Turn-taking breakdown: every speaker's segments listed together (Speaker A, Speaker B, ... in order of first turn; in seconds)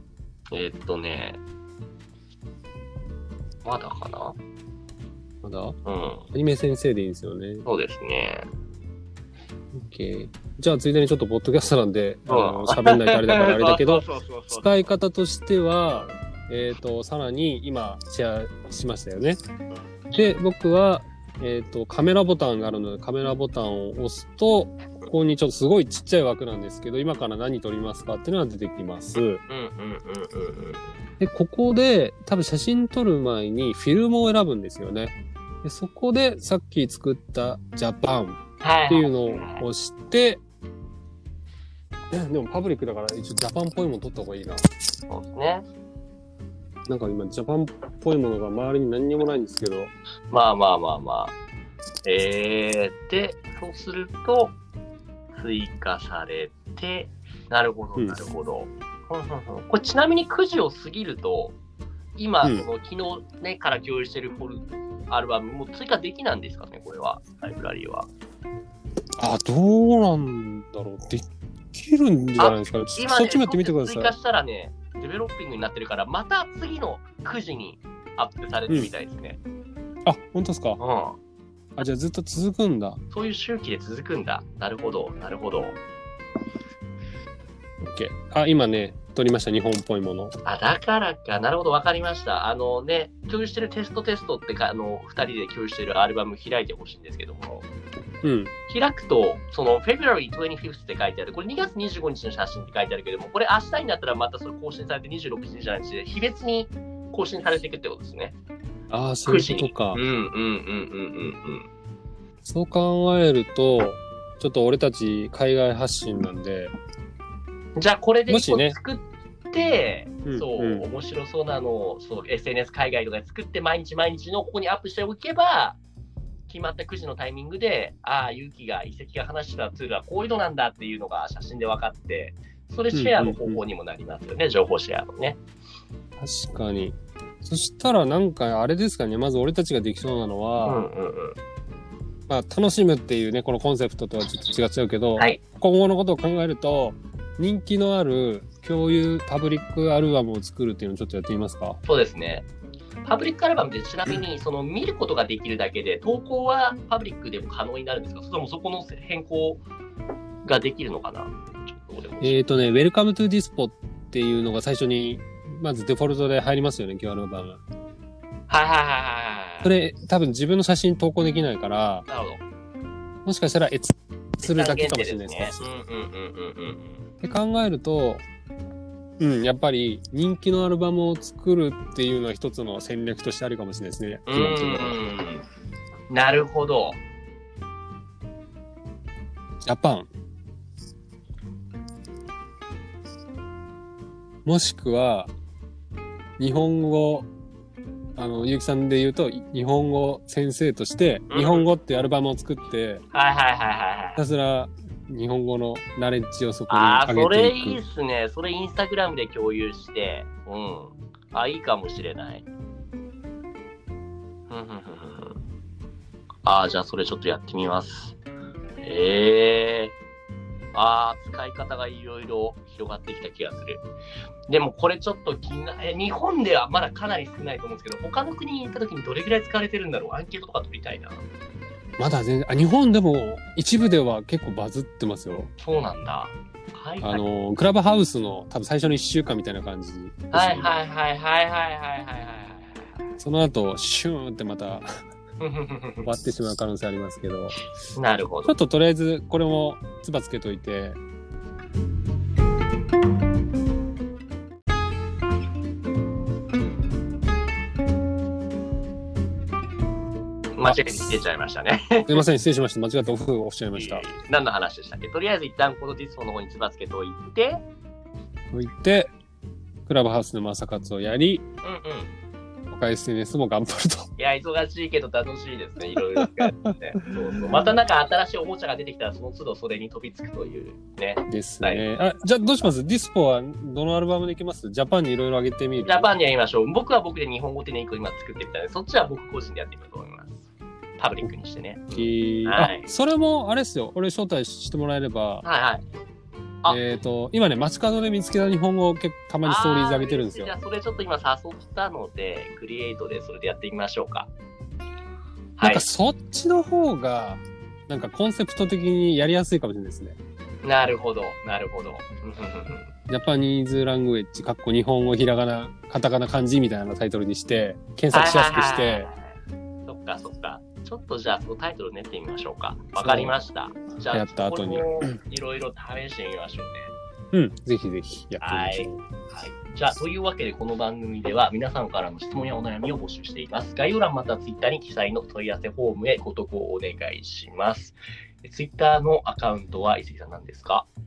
Speaker A: 0.5-1.4, 3.6-4.4, 5.8-6.3, 7.6-8.5, 12.3-14.9, 15.9-16.2, 29.1-30.9, 38.6-39.6, 45.1-45.6, 50.3-51.3, 52.0-54.5, 55.3-61.5, 62.1-68.1, 72.4-79.4, 80.8-81.2, 83.1-85.8, 90.4-97.7, 98.7-108.3, 109.2-111.7, 117.8-125.8, 126.5-135.4, 140.6-141.3, 151.8-152.5, 153.0-159.6, 160.4-162.4, 168.5-169.7, 172.1-172.4, 174.4-177.0, 184.3-185.4, 186.1-187.0, 201.3-201.7, 203.1-204.2, 206.7-212.4, 214.5-215.4, 216.4-218.2, 218.8-219.9, 220.7-223.8, 224.5-231.2, 235.6-237.2, 240.3-243.0, 245.4-246.1, 247.9-248.5, 260.6-262.2, 263.7-267.6, 271.6-272.1, 274.2-281.8, 285.8-290.4, 291.0-292.9, 295.4-295.8, 296.6-296.9, 299.4-304.3, 305.6-305.9, 310.6-312.9, 318.1-319.1, 319.9-326.9, 328.4-340.9
Speaker B: 5.4-5.8, 6.3-7.7, 9.7-19.4, 20.1-29.4, 31.2-40.4, 42.1-44.6, 46.9-49.9, 58.0-58.2, 69.2-74.1, 80.0-80.8, 81.8-83.0, 87.8-90.3, 98.2-98.5, 108.9-110.0, 112.4-116.7, 118.3-118.8, 120.2-120.9, 132.9-133.6, 136.2-140.8, 142.3-151.8, 162.2-167.6, 169.6-172.1, 173.2-175.6, 177.2-178.2, 179.2-185.0, 189.6-190.1, 194.4-195.3, 196.4-197.3, 198.2-203.0, 204.2-207.8, 232.0-235.5, 237.0-240.8, 243.2-244.9, 246.1-247.6, 248.4-251.0, 260.6-261.2, 262.1-264.1, 268.5-269.1, 269.9-271.4, 272.7-274.1, 276.2-276.5, 281.3-286.1, 291.9-295.4, 296.7-300.5, 305.6-310.2, 313.1-319.1, 323.0-323.4, 324.1-325.1, 327.3-329.0